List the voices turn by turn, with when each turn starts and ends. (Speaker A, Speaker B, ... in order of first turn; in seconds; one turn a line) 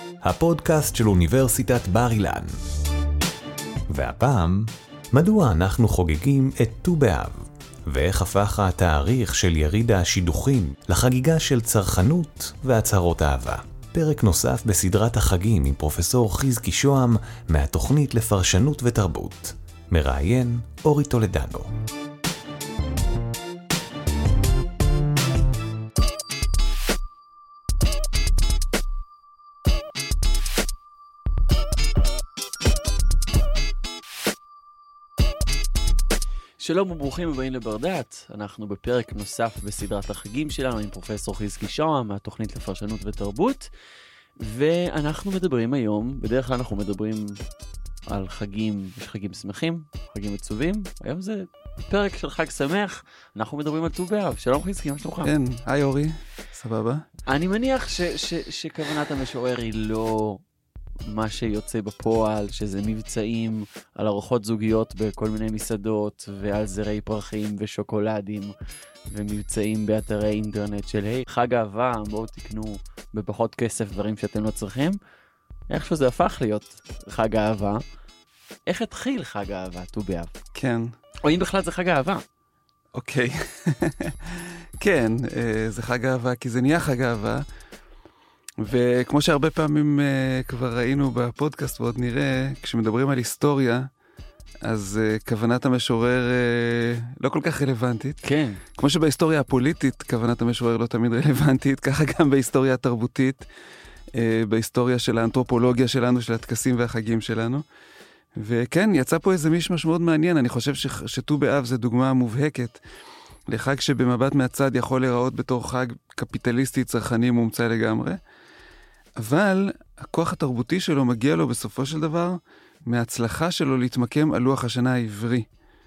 Speaker A: 0.2-2.5
Speaker A: 3.9-21.7
Speaker B: 36.6-43.7
Speaker B: 44.4-47.4
Speaker B: 48.1-55.3
Speaker C: 55.2-57.0
Speaker B: 57.3-60.4
Speaker B: 61.0-68.5
Speaker B: 69.1-75.0
Speaker B: 75.7-77.8
Speaker B: 78.7-80.3
Speaker C: 80.5-80.9
Speaker B: 81.2-82.2
Speaker C: 82.9-87.4
Speaker C: 88.6-93.9
Speaker C: 94.6-98.2
Speaker B: 98.2-98.6
Speaker C: 98.7-103.5
Speaker C: 104.1-107.6
Speaker C: 108.3-112.8
Speaker C: 113.5-118.2
Speaker C: 119.2-125.5